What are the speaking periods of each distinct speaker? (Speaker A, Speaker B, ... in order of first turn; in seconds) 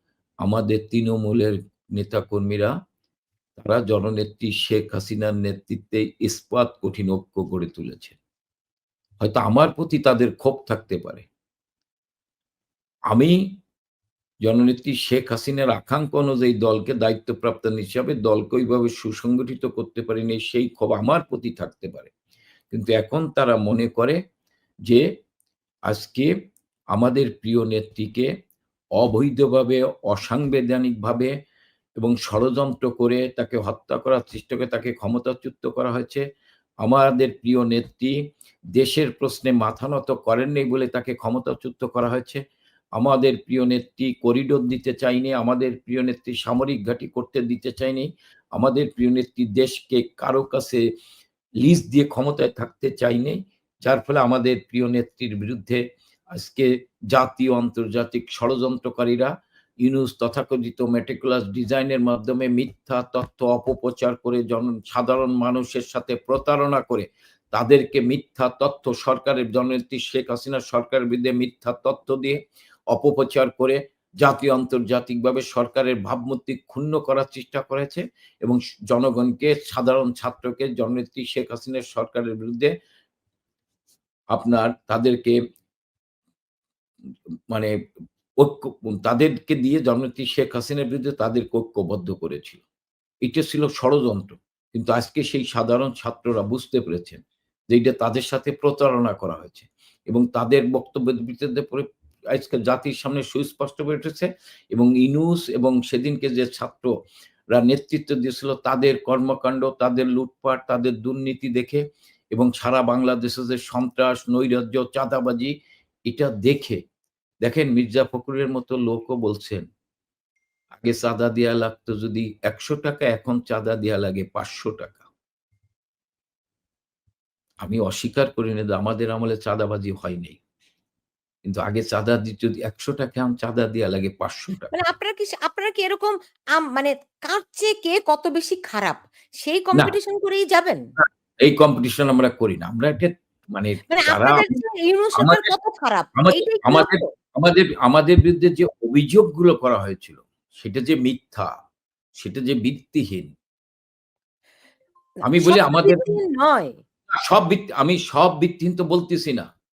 Speaker A: 0.4-2.7, 3.6-8.2, 9.2-11.3, 13.1-13.4, 14.4-22.1, 22.7-24.2, 25.9-26.3, 26.9-28.3, 29.0-31.3, 32.0-36.2, 36.8-38.1, 38.7-42.4, 43.0-50.8, 51.6-55.8, 56.3-59.3, 59.8-72.4, 72.9-82.7, 84.3-85.4, 88.4-92.6, 93.2-106.9, 107.5-115.5, 116.1-116.8, 117.4-119.7, 120.7-125.1, 127.6-130.4, 131.4-134.7, 141.0-144.5, 145.2-145.5, 146.1-151.5, 152.2-153.3, 155.2-156.2, 157.2-159.5
Speaker B: 134.7-140.8, 143.9-147.1, 155.3-156.8